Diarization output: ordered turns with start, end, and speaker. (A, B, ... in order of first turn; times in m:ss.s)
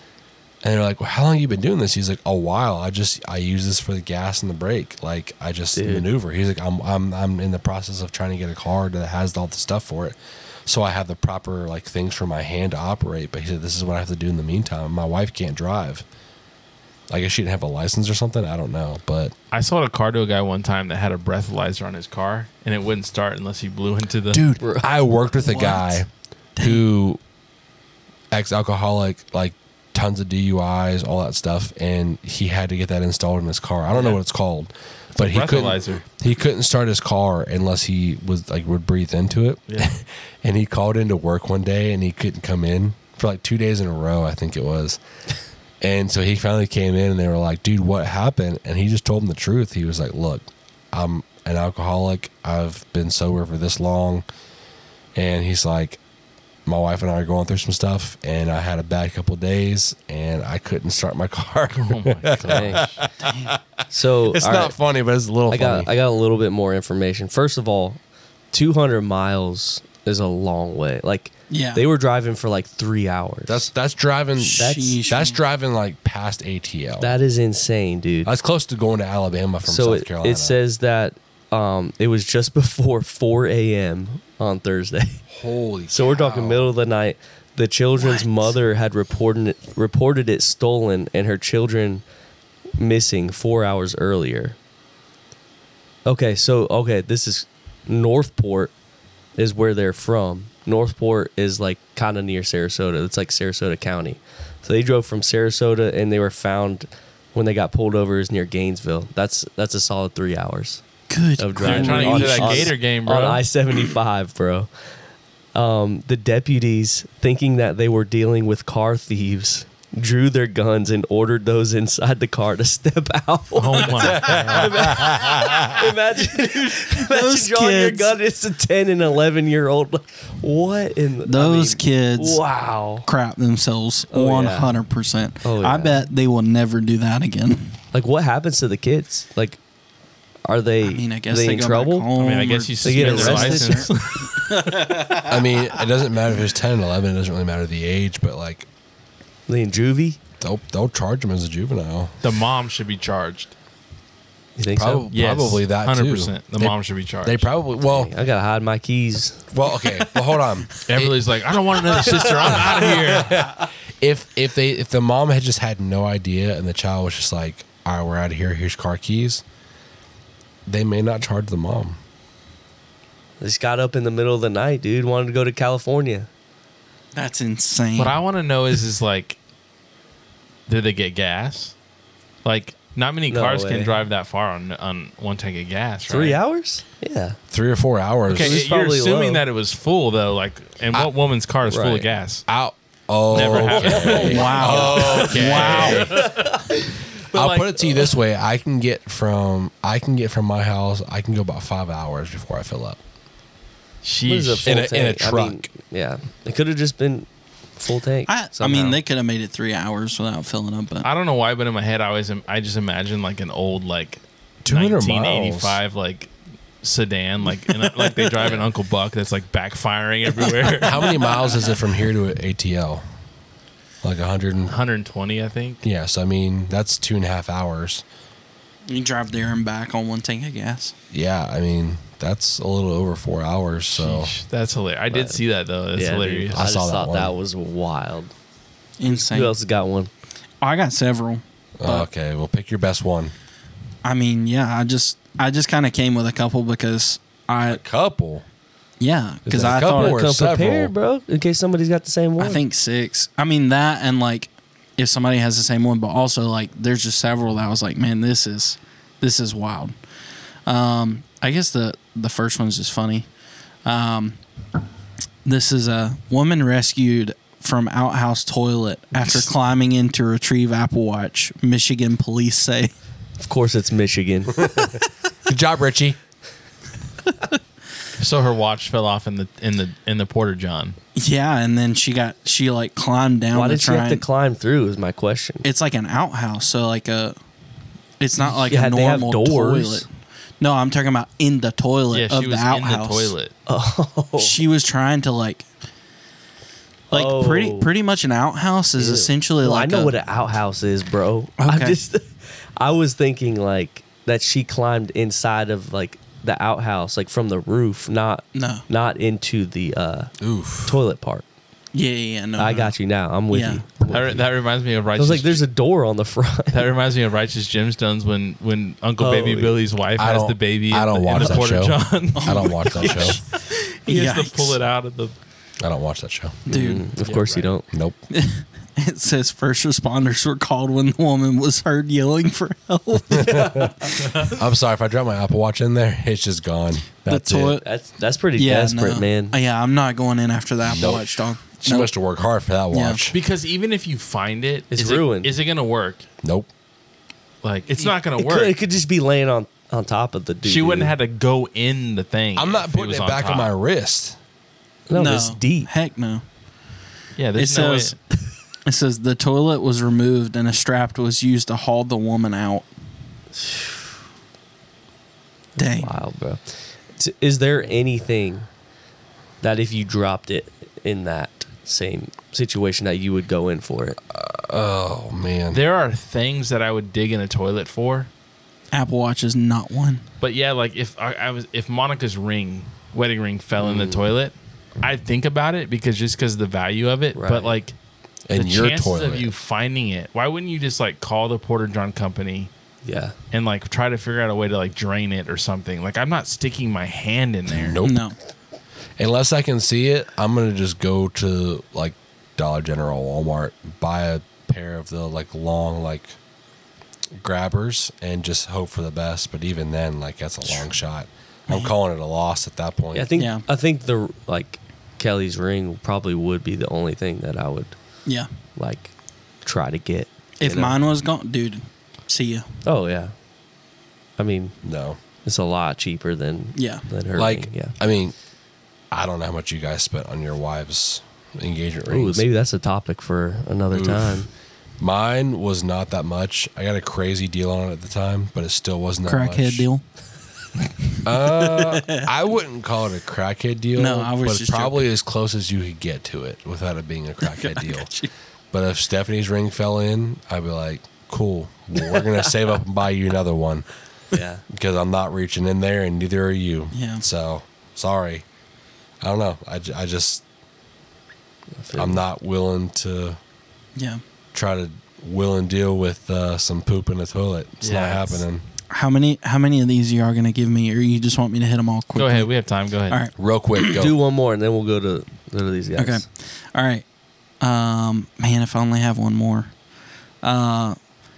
0:00.6-0:16.0 A
0:05.8-0:06.0 B
0:17.1-0:19.3 A
0:19.5-0:24.5 C
0:24.3-0:24.7 D
0:24.6-0:24.9 B
0:24.8-0:26.1 A
0:25.4-0:26.0 D
0:26.6-0:26.8 D
0:26.6-0:27.2 A
0:28.3-0:45.0 A
0:33.9-0:34.2 C
0:35.2-0:36.0 C
0:45.8-0:54.2 A
0:55.2-0:56.0 A
0:56.7-1:05.9 A
1:01.8-1:03.0 C
1:02.5-1:02.8 B
1:03.2-1:03.5 D
1:03.9-1:04.7 B
1:05.5-1:08.0 B
1:08.5-1:13.7 B
1:11.5-1:11.8 D
1:13.5-1:17.1 A
1:14.4-1:15.4 D
1:14.6-1:15.0 B
1:17.0-1:18.3 B
1:18.2-1:20.6 A
1:19.6-1:25.2 B
1:25.3-1:26.7 A
1:25.9-1:32.0 B
1:28.0-1:28.5 D
1:32.8-1:34.6 B
1:36.1-1:38.7 B
1:39.4-1:50.8 B
1:51.1-1:52.7 D
1:51.4-1:54.7 B
1:51.6-1:53.4 C
1:55.6-2:13.1 B
2:03.6-2:04.7 C
2:04.0-2:05.9 A
2:06.4-2:08.1 D
2:11.3-2:12.4 D
2:13.0-2:17.8 D
2:14.1-2:14.8 B
2:15.4-2:16.0 B
2:17.9-2:19.6 B
2:20.4-2:22.1 B
2:20.8-2:25.6 D
2:22.2-2:24.9 C
2:22.8-2:23.9 B
2:25.2-2:28.7 A
2:29.5-2:30.2 B
2:30.4-2:32.1 A
2:32.2-2:33.5 C
2:34.6-2:35.1 B
2:34.7-2:38.1 A
2:35.1-2:37.5 C
2:37.8-2:39.4 B
2:39.5-2:41.2 A
2:40.9-2:43.5 C
2:42.1-2:49.4 A
2:50.7-2:52.0 A
2:53.4-2:56.3 B
2:57.2-2:58.2 D
2:58.0-2:59.4 C
3:00.7-3:01.7 C
3:02.4-3:06.4 C
3:03.3-3:03.9 B
3:06.1-3:07.4 B
3:07.5-3:08.6 A
3:08.3-3:12.5 C
3:08.3-3:09.4 B
3:11.7-3:12.1 B
3:12.5-3:16.5 A
3:13.3-3:16.6 C
3:13.3-3:16.7 B
3:14.2-3:16.1 D
3:17.3-3:17.9 C
3:17.3-3:23.0 A
3:24.0-3:24.8 C
3:24.3-3:29.0 B
3:24.6-3:25.7 A
3:28.3-3:31.1 D
3:31.0-3:36.3 C
3:34.6-3:35.8 A
3:36.8-3:41.1 C
3:38.4-3:38.7 B
3:40.8-3:43.0 A
3:44.0-3:44.8 A
3:44.7-3:45.8 C
3:45.8-3:48.0 A
3:48.9-3:51.0 D
3:51.1-3:54.3 A
3:54.0-3:56.6 C
3:55.1-3:55.4 B
3:56.0-3:58.3 B
3:56.5-3:57.4 A
3:59.0-3:59.6 D
3:59.1-4:00.1 B
4:00.6-4:02.1 D
4:01.8-4:03.3 A
4:04.0-4:07.8 D
4:07.7-4:08.4 A
4:09.0-4:10.2 D
4:09.5-4:10.9 A
4:09.7-4:12.6 B
4:12.4-4:19.9 D
4:20.7-4:23.3 D
4:23.8-4:24.4 D
4:25.4-4:32.9 D
4:33.4-4:34.9 B
4:35.5-4:36.2 A
4:38.2-4:41.0 C
4:41.2-4:44.2 D
4:43.5-4:45.7 B
4:45.6-4:47.4 D
4:48.2-4:50.1 D
4:48.4-4:50.1 B
4:50.6-4:53.3 D
4:52.1-4:53.5 C
4:53.7-4:54.6 B
4:54.4-4:55.6 D
4:57.1-4:57.9 B
4:57.1-5:00.2 D
4:59.0-5:10.3 B
5:01.6-5:02.0 D
5:08.6-5:08.9 D
5:10.4-5:11.0 A
5:10.9-5:11.4 B
5:11.9-5:12.9 D
5:12.6-5:14.4 B
5:13.5-5:13.8 D
5:14.1-5:15.6 C
5:15.2-5:16.9 B
5:16.7-5:25.3 C
5:19.2-5:19.8 B
5:20.2-5:23.4 A
5:22.4-5:23.5 D
5:24.1-5:24.8 D
5:25.8-5:26.6 A
5:26.7-5:27.1 D
5:26.7-5:27.8 B
5:27.2-5:27.8 C
5:27.9-5:28.2 A
5:28.3-5:34.4 D
5:33.3-5:37.8 A
5:37.3-5:37.8 D
5:37.8-5:39.6 B
5:38.6-5:42.1 D
5:40.8-5:43.4 A
5:42.9-5:43.2 D
5:43.3-5:46.2 C
5:44.9-5:45.5 B
5:46.4-5:46.7 A
5:47.6-5:48.8 C
5:48.4-5:51.1 B
5:50.6-5:53.7 C
5:52.6-5:54.4 A
5:55.1-5:55.9 B
5:55.1-5:56.4 D
5:57.4-5:58.2 C
5:57.6-5:58.2 D
5:58.9-6:02.9 D
6:03.6-6:04.0 B
6:05.8-6:06.2 D
6:05.8-6:08.7 B
6:09.6-6:14.2 B
6:14.3-6:15.8 A
6:15.7-6:18.3 C
6:18.9-6:20.2 D
6:20.4-6:28.0 C
6:23.8-6:24.3 B
6:27.4-6:27.8 B
6:28.5-6:29.5 A
6:28.5-6:32.7 C
6:33.0-6:33.4 B
6:33.5-6:38.0 C
6:37.7-6:38.3 A
6:38.0-6:38.4 D
6:39.2-6:46.4 A
6:47.4-6:53.3 A
6:53.1-6:58.0 B
6:53.4-6:53.6 D
6:58.8-6:59.1 B
6:59.6-7:01.0 B
7:00.6-7:02.7 D
7:02.8-7:03.3 B
7:04.4-7:04.8 B
7:04.8-7:05.2 A
7:05.4-7:08.0 B
7:06.8-7:07.0 D
7:07.4-7:08.4 A
7:09.1-7:12.5 A
7:12.1-7:14.5 B
7:13.9-7:14.5 A
7:15.0-7:19.9 A
7:19.3-7:20.0 D
7:21.2-7:28.1 A
7:21.4-7:22.3 D
7:24.0-7:25.0 D
7:27.4-7:28.3 D
7:28.7-7:33.9 A
7:34.3-7:34.6 B
7:34.7-7:38.4 A
7:36.9-7:37.2 D
7:39.2-7:40.4 A
7:41.8-7:42.2 B
7:42.0-7:43.4 A
7:44.0-7:44.2 D
7:44.5-7:48.6 A
7:47.8-7:48.4 C
7:48.9-7:52.5 D
7:52.2-7:53.2 C
7:53.1-7:54.0 D
7:53.4-7:54.2 A
7:53.9-7:56.2 B
7:56.0-7:57.0 D
7:57.6-7:59.7 D
8:00.4-8:01.0 D